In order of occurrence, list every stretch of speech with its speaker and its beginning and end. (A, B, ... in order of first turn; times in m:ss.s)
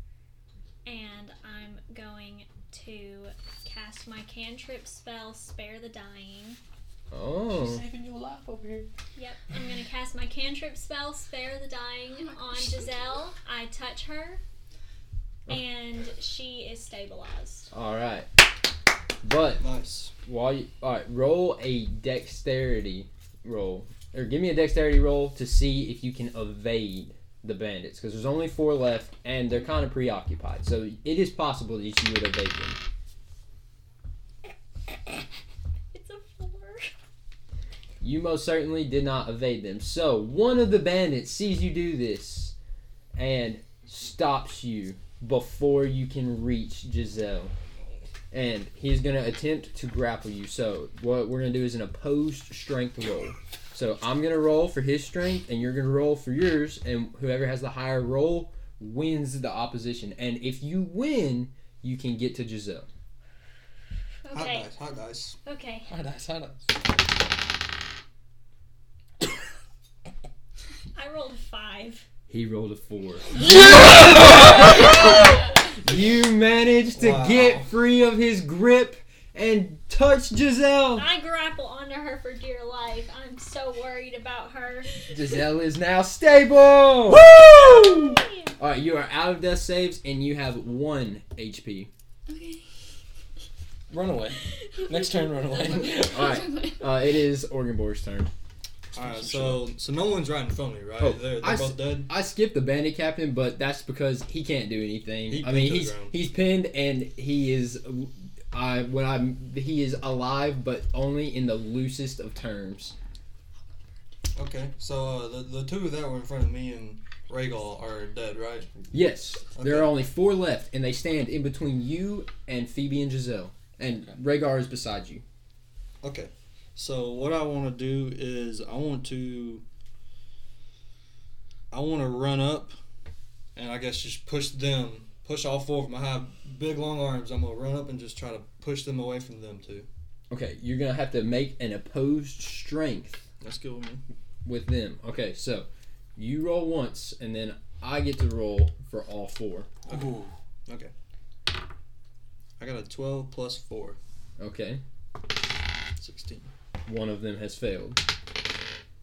0:00.8-0:06.6 A
0:07.1-0:07.8 B
0:07.5-0:08.9 C
0:09.2-0:14.4 A
0:12.1-0:13.0 D
0:15.5-0:17.7 A
0:17.7-0:18.3 B
0:19.2-0:19.6 B
0:19.6-0:20.1 E
0:20.2-0:32.8 B
0:35.9-0:36.9 A
0:38.0-0:42.6 B
0:43.2-0:47.5 B
0:48.3-1:02.9 B
1:04.2-1:04.7 A
1:04.3-1:05.4 E
1:05.4-1:05.9 A
1:05.9-1:06.8 C
1:11.0-1:12.1 A
1:12.3-1:21.1 B
1:13.4-1:15.0 C
1:17.0-1:17.7 E
1:21.0-1:25.1 A
1:25.1-1:28.1 B
1:27.1-1:28.1 C
1:27.5-1:28.6 A
1:28.6-1:31.9 B
1:32.3-1:32.8 D
1:33.9-1:36.4 C
1:34.4-1:37.0 D
1:36.1-1:38.3 B
1:39.0-1:42.1 E
1:39.0-1:39.7 C
1:41.0-1:53.0 B
1:45.3-1:46.2 E
1:54.4-1:58.7 E
1:58.9-2:05.2 B
1:59.6-1:59.9 E
2:06.0-2:09.6 E
2:11.7-2:12.8 E
2:13.6-2:19.9 E
2:20.3-2:23.2 B
2:23.4-2:24.0 E
2:24.4-2:29.7 B
2:29.9-2:30.9 E
2:29.9-2:30.3 C
2:32.6-2:34.0 E
2:34.4-2:34.8 B
2:36.0-2:36.5 E
2:36.9-2:38.0 B